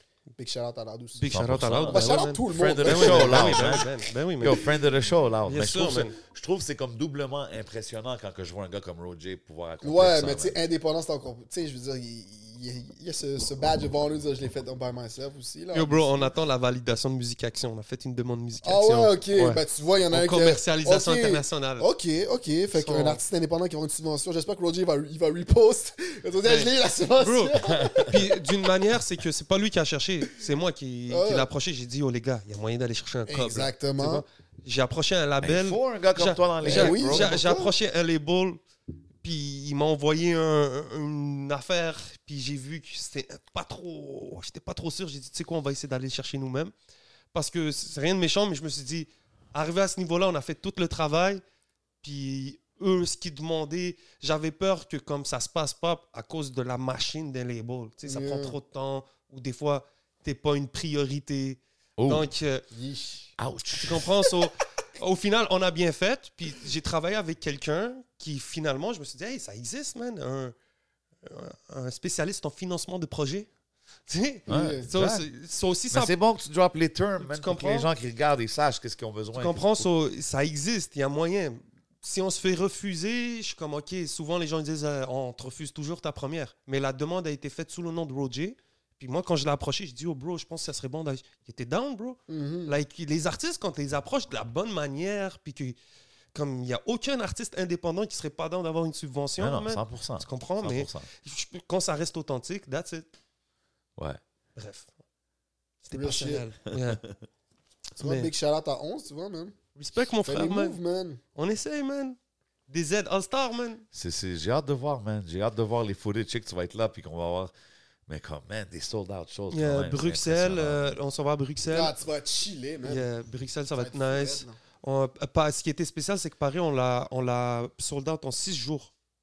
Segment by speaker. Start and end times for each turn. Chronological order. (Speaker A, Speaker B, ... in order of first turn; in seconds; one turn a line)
Speaker A: 0.3-1.2
Speaker B: 1.2-4.6
Speaker C: 1.3-3.9
Speaker A: 1.9-3.9
Speaker C: 4.4-10.6
Speaker B: 5.5-6.2
Speaker A: 9.8-16.3
Speaker B: 15.7-19.2
Speaker A: 18.6-28.4
Speaker B: 20.1-21.9
Speaker B: 22.7-23.2
Speaker B: 26.4-38.6
Speaker C: 27.6-28.2
Speaker A: 31.1-31.5
Speaker A: 33.3-34.2
Speaker C: 35.4-37.3
Speaker A: 36.6-37.7
Speaker B: 39.2-46.7
Speaker B: 47.3-51.4
Speaker B: 52.0-62.6
Speaker A: 58.0-58.6
Speaker C: 62.0-62.3
Speaker A: 62.7-63.3
Speaker C: 63.4-64.1
Speaker B: 63.8-70.5
Speaker B: 71.2-73.5
Speaker B: 74.1-76.1
Speaker A: 74.5-74.9
Speaker C: 74.5-75.2
Speaker C: 75.9-79.9
Speaker B: 77.2-77.9
Speaker B: 79.3-95.8
Speaker A: 92.3-92.7
Speaker B: 96.3-103.0
Speaker C: 99.4-101.1
Speaker B: 104.5-104.9
Speaker B: 105.8-107.0
Speaker A: 105.9-106.5
Speaker C: 106.7-107.2
Speaker A: 108.0-109.5
Speaker B: 108.0-108.3
Speaker B: 109.7-110.8
Speaker A: 110.2-111.2
Speaker B: 111.3-112.2
Speaker B: 112.7-113.8
Speaker C: 113.9-117.5
Speaker C: 118.1-120.9
Speaker B: 119.5-121.9
Speaker A: 121.7-123.0
Speaker B: 122.8-128.9
Speaker A: 123.7-124.6